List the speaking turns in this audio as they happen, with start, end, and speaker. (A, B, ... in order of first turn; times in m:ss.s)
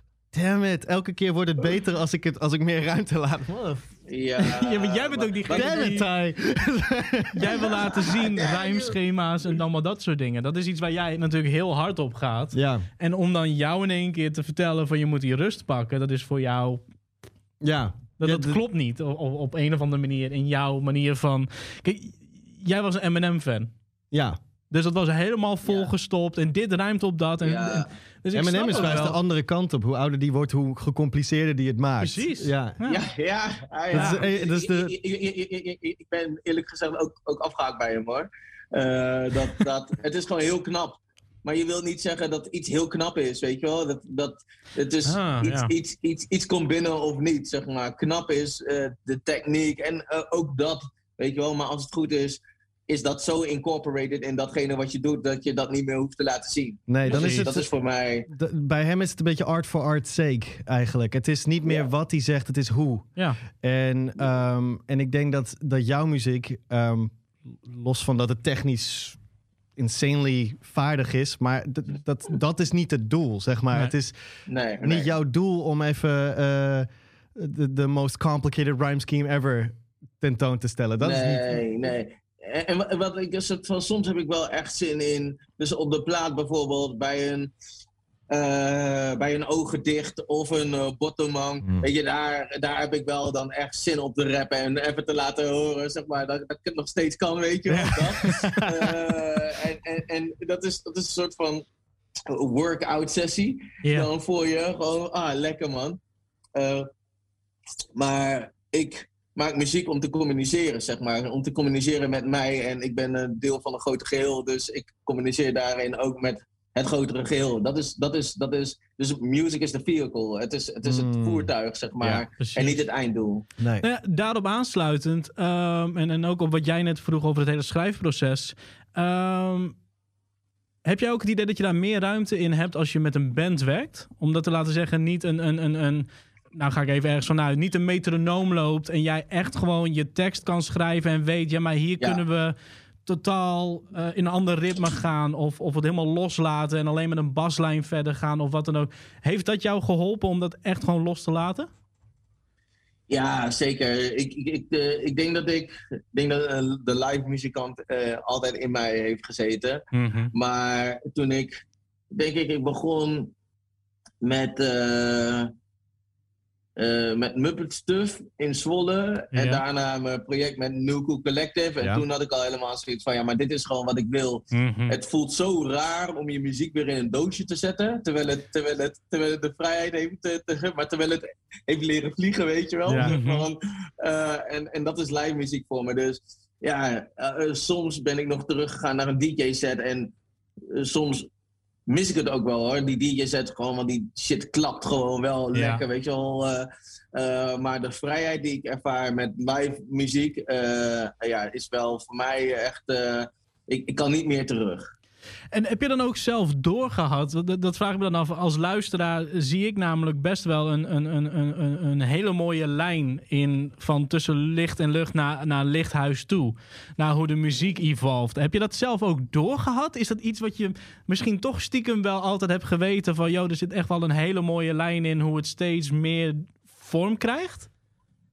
0:00.3-0:03.8 A
0:04.1-0:05.9 B
0:04.4-0:06.1 C
0:05.5-0:07.9 A
0:07.4-0:16.8 C
0:07.5-0:09.0 B
0:12.5-0:12.9 A
0:17.6-0:18.6 A
0:18.2-0:23.7 C
0:24.1-0:24.4 A
0:24.7-0:29.2 C
0:25.6-0:25.9 B
0:27.4-0:27.9 B
0:28.3-0:32.8 A
0:32.0-0:33.0 C
0:32.8-0:58.3 B
0:33.9-0:34.2 C
0:33.9-0:35.0 A
0:45.1-0:45.7 C
0:56.9-0:57.7 A
0:57.1-0:57.5 C
0:58.3-1:09.2 A
1:09.8-1:14.2 A
1:14.5-1:15.1 B
1:14.8-1:21.6 A
1:21.0-1:27.5 B
1:28.3-1:41.6 B
1:37.7-1:39.0 A
1:42.3-1:46.0 B
1:46.6-1:46.9 B
1:48.0-2:03.4 B
2:00.8-2:01.5 A
2:02.0-2:02.2 A
2:02.4-2:02.8 C
2:03.6-2:03.9 A
2:03.8-2:09.7 C
2:10.8-2:22.6 C
2:23.1-2:31.7 C
2:33.1-2:41.6 B
2:39.9-2:40.3 C
2:42.1-2:43.3 B
2:44.2-2:45.5 B
2:46.8-3:10.1 B
2:49.3-2:49.6 C
2:54.5-2:55.0 C
3:02.9-3:03.2 A
3:03.0-3:03.5 C
3:10.7-3:11.3 B
3:11.9-3:24.9 B
3:15.5-3:15.8 C
3:25.5-3:47.7 C